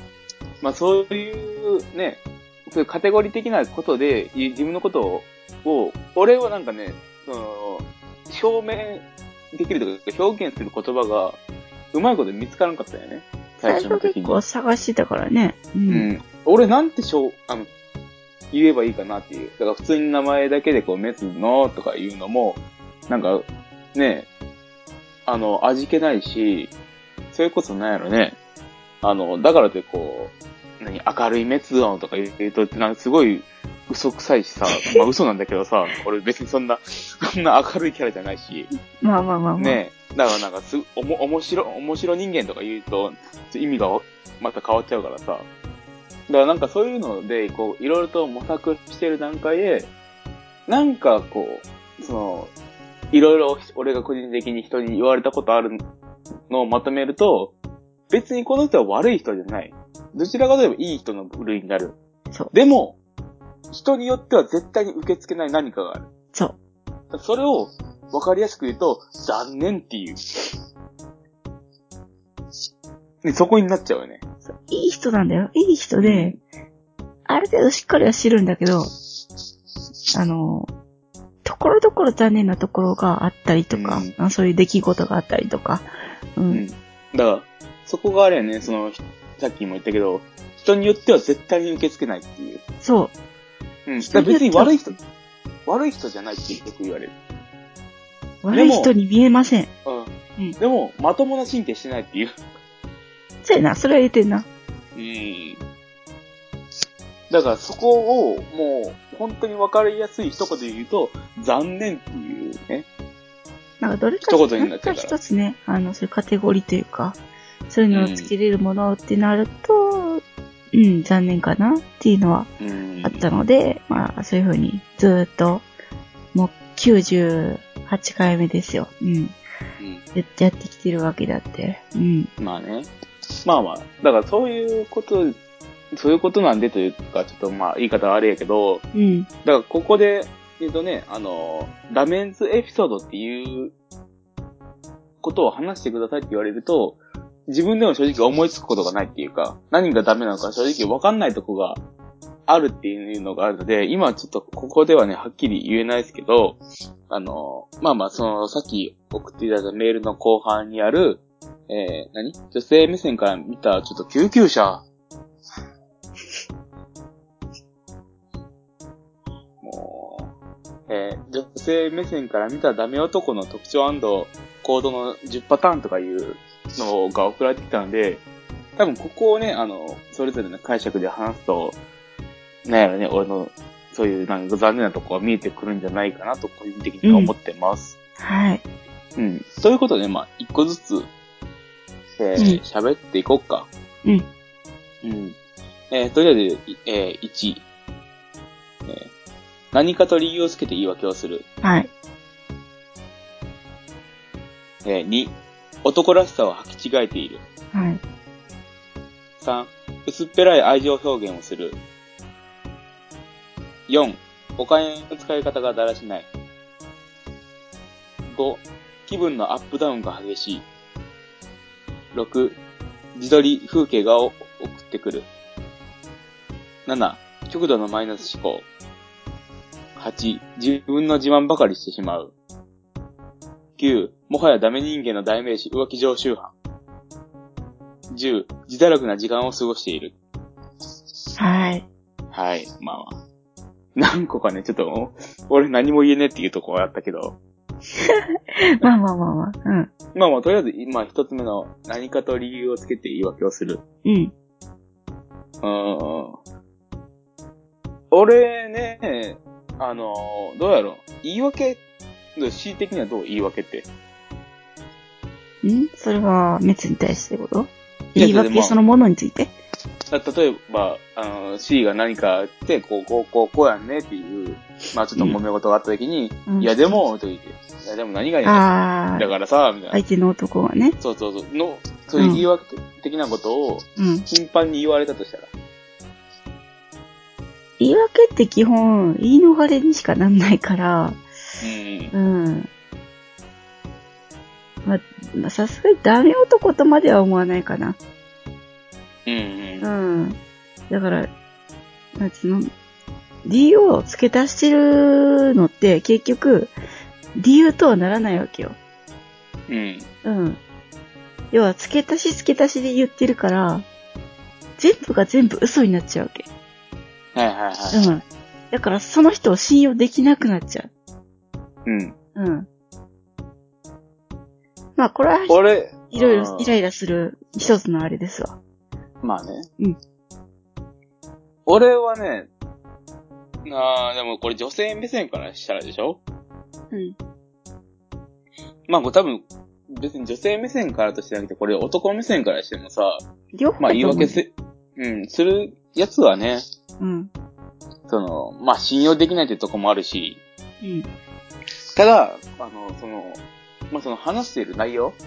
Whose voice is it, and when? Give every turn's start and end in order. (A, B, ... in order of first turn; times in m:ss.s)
0:00.6-0:11.4 A
0:11.9-0:14.4 A
0:13.6-0:16.1 B
0:15.9-0:17.7 A
0:18.5-0:24.3 A
0:25.3-0:26.7 A
0:27.3-0:28.4 A
0:29.0-0:38.7 A
0:34.7-0:35.0 B
0:39.0-0:39.8 B
0:39.6-0:45.5 A
0:46.3-0:49.9 A
0:50.7-0:52.5 A
0:53.1-0:55.8 A
0:56.5-0:57.5 A
0:58.1-1:02.0 A
1:02.5-1:03.0 A
1:03.7-1:06.1 A
1:07.1-1:10.2 A
1:13.2-1:14.2 A
1:14.5-1:16.4 B
1:16.0-1:16.4 A
1:17.3-1:18.9 B
1:20.1-1:20.7 B
1:21.4-1:26.6 B
1:23.7-1:24.1 A
1:26.5-1:32.6 A
1:32.8-1:33.1 B
1:33.9-1:35.0 A
1:34.0-1:34.8 B
1:35.7-1:37.1 A
1:38.4-1:39.7 B
1:38.5-1:38.9 A
1:39.8-1:42.3 A
1:43.4-1:44.5 B
1:45.0-1:45.6 A
1:47.3-1:52.9 A
1:53.8-2:00.2 B
1:54.2-1:55.2 A
1:57.9-1:58.3 A
2:00.7-2:02.5 B
2:02.6-2:03.2 A
2:03.0-2:05.7 B
2:06.3-2:09.4 B
2:10.2-2:12.3 B
2:12.4-2:12.9 A
2:13.4-2:15.4 A
2:15.9-2:18.8 A
2:18.9-2:19.3 B
2:19.4-2:23.7 A
2:25.2-2:31.8 A
2:32.5-2:36.6 A
2:37.1-2:44.8 A
2:49.6-2:50.3 A
2:50.9-2:58.2 A
2:58.8-3:01.8 A
3:02.6-3:08.0 A
3:07.0-3:07.3 B
3:08.2-3:08.6 B
3:09.2-3:11.1 A
3:12.2-3:13.7 A
3:15.0-3:15.4 A
3:15.9-3:17.7 A
3:19.7-3:21.5 A
3:21.6-3:21.9 B
3:24.8-3:27.4 A
3:27.7-3:28.0 B
3:29.4-3:31.8 A
3:33.9-3:36.3 A
3:38.3-3:40.7 A
3:42.1-3:42.6 A
3:43.2-3:45.3 A
3:46.9-3:48.7 A
3:50.0-3:52.3 A
3:53.8-3:56.5 A
3:58.1-4:00.2 A
4:01.4-4:01.9 B
4:02.3-4:03.2 A
4:04.0-4:07.4 A
4:08.0-4:09.9 B
4:10.1-4:13.8 A
4:14.0-4:14.3 B
4:15.6-4:16.4 A
4:18.1-4:21.8 A
4:22.4-4:23.9 A
4:25.6-4:29.5 B
4:28.1-4:28.8 A
4:30.1-4:40.0 A
4:36.5-4:36.8 B
4:38.4-4:39.3 B
4:39.9-4:41.0 B
4:41.0-4:45.5 A
4:42.2-4:42.4 B
4:44.0-4:44.2 B
4:47.8-4:51.2 B
4:51.6-4:52.1 A
4:52.1-4:52.7 B
4:54.8-4:58.0 B
4:59.3-4:59.9 A
4:59.8-5:00.4 B
5:00.9-5:01.3 B
5:02.2-5:02.7 B
5:03.4-5:06.7 B
5:07.4-5:08.8 B
5:09.7-5:10.1 A
5:10.2-5:10.6 B
5:11.5-5:13.9 B
5:14.8-5:16.5 B
5:17.3-5:18.0 A
5:17.9-5:20.9 B
5:21.8-5:22.2 A
5:22.4-5:22.7 B
5:25.0-5:25.6 B
5:25.5-5:26.8 A
5:26.1-5:28.6 B
5:29.2-5:29.7 A
5:31.7-5:32.5 A
5:33.6-5:36.2 A
5:38.9-5:43.2 A
5:43.5-5:44.4 B
5:43.8-5:46.6 A
5:47.0-5:47.3 B
5:48.1-5:50.4 A
5:50.8-5:51.1 B
5:52.0-5:55.2 A